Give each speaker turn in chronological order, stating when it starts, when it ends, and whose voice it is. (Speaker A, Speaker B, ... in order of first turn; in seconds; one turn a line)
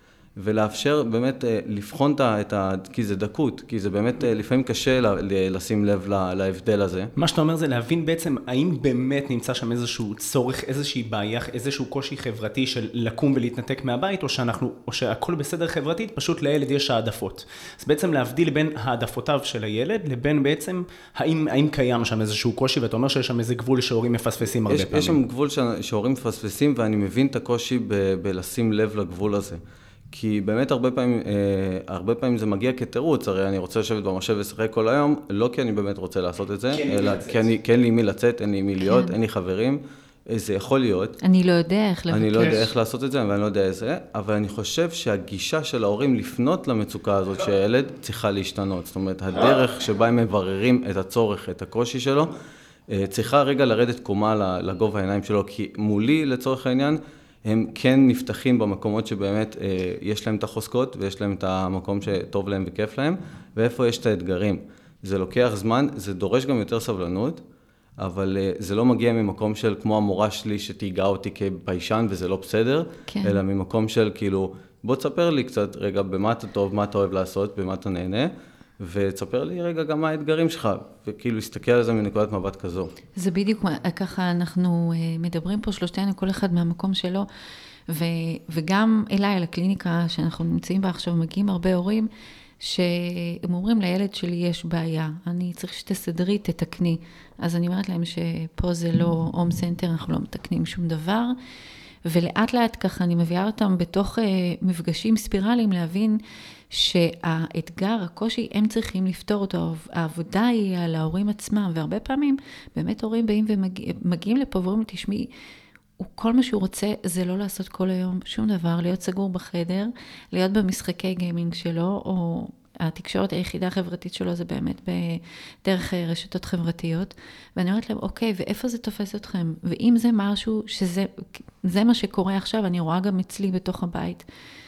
Speaker A: 0.4-7.1
Speaker B: 7.2-25.2
Speaker A: 24.7-29.6
Speaker A: 30.1-41.2
Speaker B: 36.7-37.5
Speaker C: 38.8-39.1
Speaker C: 41.2-42.7
Speaker A: 42.1-52.3
Speaker A: 52.9-67.4
Speaker A: 68.0-82.9
Speaker C: 73.1-73.4
Speaker C: 83.2-87.2
Speaker C: 87.9-92.1
Speaker C: 92.6-101.3
Speaker C: 102.0-115.3
Speaker C: 116.0-134.2